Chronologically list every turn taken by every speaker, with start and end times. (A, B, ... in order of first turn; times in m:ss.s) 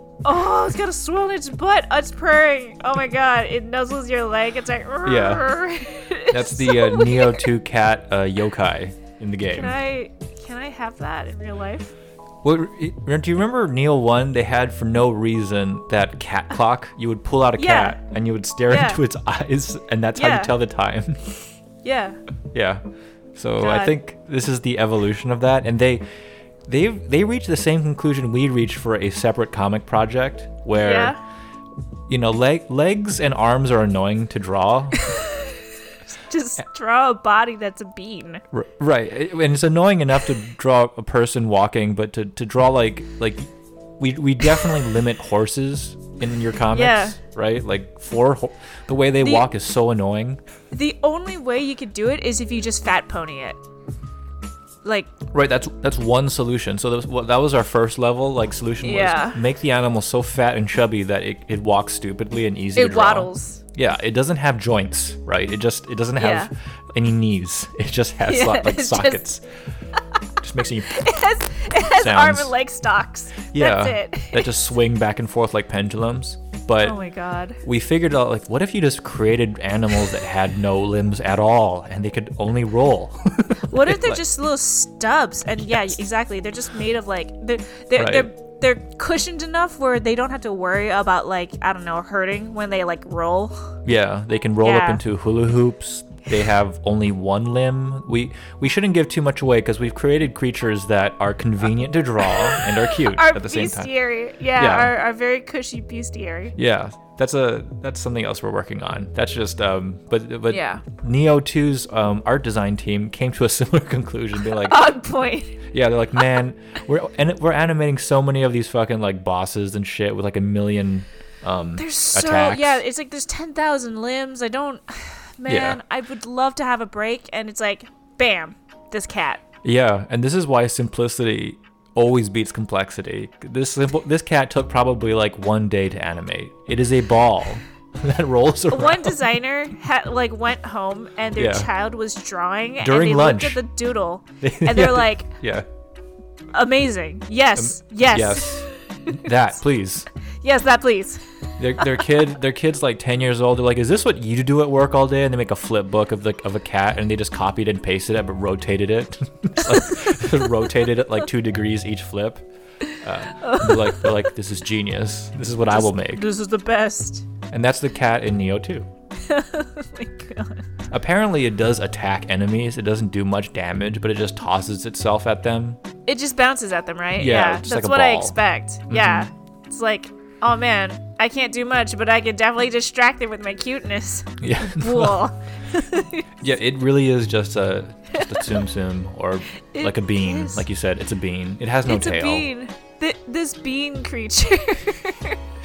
0:00.2-0:07.5 A
0:05.0-0:05.5 B
0:06.3-0:09.8 B
0:09.5-0:11.9 A
0:12.4-0:21.2 B
0:17.6-0:18.0 A
0:18.7-0:19.0 A
0:20.2-0:20.5 A
0:21.8-0:22.2 A
0:22.5-0:22.8 B
0:23.4-0:26.0 B
0:23.6-0:24.0 A
0:26.7-0:31.2 B
0:30.8-0:31.2 A
0:32.1-0:35.1 B
0:35.0-0:38.4 A
0:38.5-0:50.4 B
0:46.7-0:47.2 A
0:49.2-0:49.5 A
0:50.7-0:53.6 A
0:54.8-0:55.1 A
0:55.3-1:09.4 B
0:58.8-0:59.4 A
1:02.8-1:03.6 A
1:06.2-1:06.5 A
1:08.3-1:09.2 A
1:10.4-1:11.1 B
1:10.9-1:14.5 A
1:11.9-1:12.5 B
1:13.5-1:17.0 B
1:16.8-1:17.6 A
1:17.6-1:24.2 B
1:23.7-1:33.7 A
1:28.0-1:28.3 B
1:33.8-1:43.9 B
1:34.6-1:35.0 A
1:42.2-1:46.6 A
1:44.6-1:44.9 B
1:46.6-1:54.8 B
1:50.5-1:50.8 A
1:54.5-1:55.6 A
1:55.7-2:02.8 B
2:01.8-2:09.4 A
2:05.5-2:05.8 B
2:09.6-2:19.3 B
2:18.7-2:25.3 A
2:21.4-2:21.7 B
2:22.8-2:23.6 B
2:24.4-2:25.7 B
2:26.5-2:29.3 A
2:27.6-2:30.1 B
2:30.4-2:31.2 A
2:31.6-2:46.2 B
2:39.7-2:40.4 A
2:43.4-2:44.3 A
2:45.7-2:47.3 A
2:47.5-2:48.9 B
2:49.2-2:50.6 A
2:50.9-2:55.8 B
2:56.1-3:06.3 A
2:57.2-2:58.4 B
2:58.9-2:59.3 B
3:04.4-3:05.2 B
3:06.4-3:12.5 B
3:08.1-3:08.7 A
3:09.7-3:10.6 A
3:11.9-3:15.4 A